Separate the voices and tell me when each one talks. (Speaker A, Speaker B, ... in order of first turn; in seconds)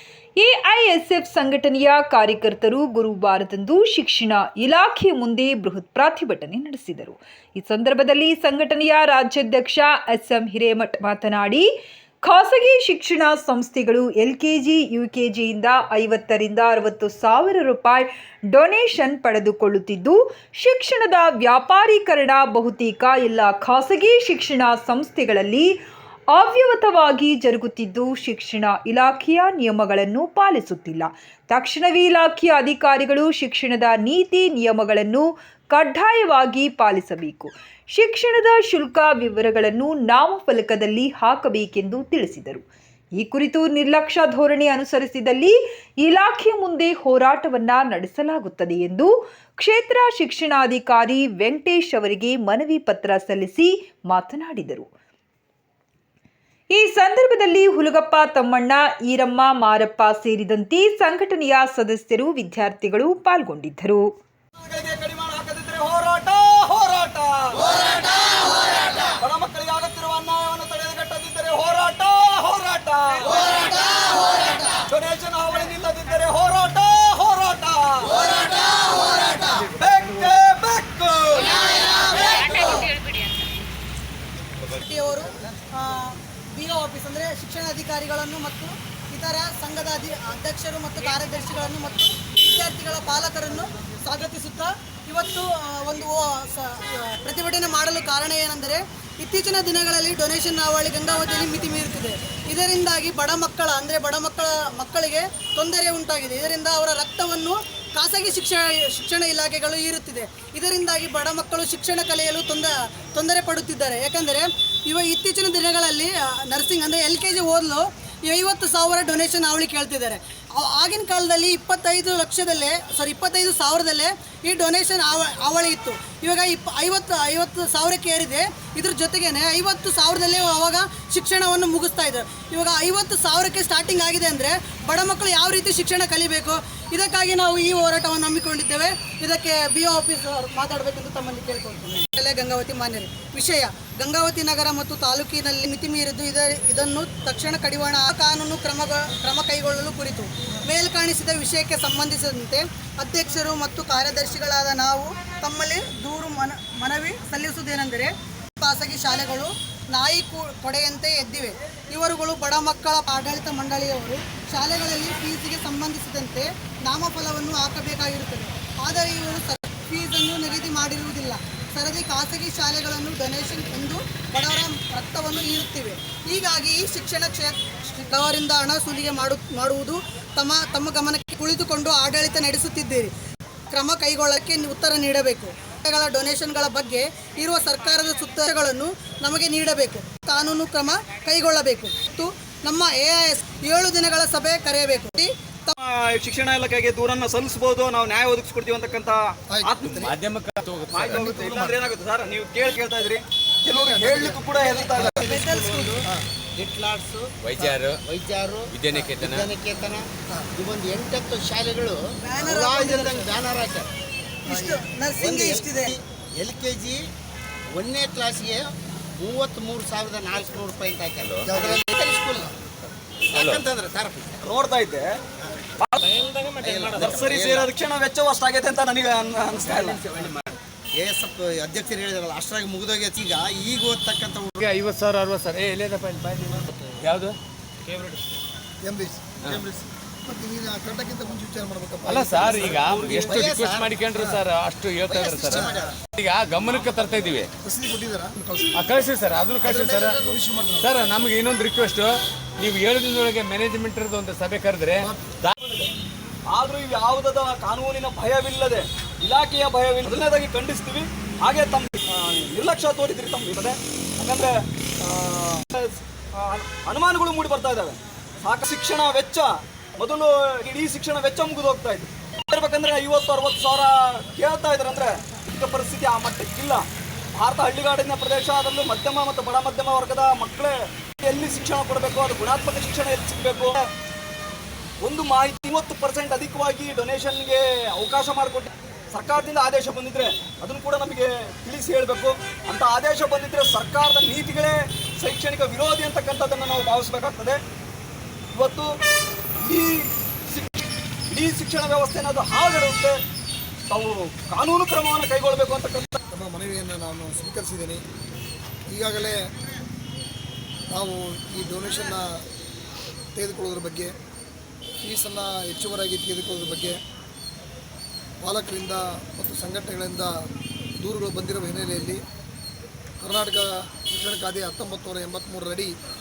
Speaker A: 0.4-11.7, 12.2-25.8, 26.3-54.9, 56.7-64.2
Speaker B: 64.6-67.9, 69.0-73.9, 74.7-81.8, 195.8-200.1, 200.9-205.7, 224.4-225.1, 225.8-226.3, 226.9-230.1, 242.5-242.9, 255.6-255.9, 256.5-276.9, 277.4-283.8, 285.0-297.6, 298.6-298.9, 299.6-303.2, 303.9-306.2
Speaker C: 73.9-74.6, 81.6-83.0, 84.7-183.1, 183.7-195.8, 205.0-206.1, 212.3-213.4, 214.5-215.9
Speaker D: 199.5-200.2, 201.1-201.8, 203.7-205.3, 214.5-214.8, 238.8-239.4, 240.2-243.5, 244.1-244.4, 245.5-245.9, 247.6-248.9, 249.6-251.0, 306.3-308.0, 308.9-309.5, 310.9-312.4, 313.3-314.1, 315.0-317.0, 318.4-320.4, 321.0-322.2, 323.2-325.9
Speaker E: 199.9-201.3, 207.4-208.0, 208.7-209.5, 221.4-221.8, 223.3-223.6, 234.6-237.4, 242.0-247.5, 248.7-250.2, 250.8-255.5
Speaker F: 206.6-213.9, 215.2-217.0, 217.8-222.6, 223.3-224.4, 226.6-227.7, 229.8-230.3, 231.0-234.7, 239.5-239.9, 242.9-243.9, 245.1-245.9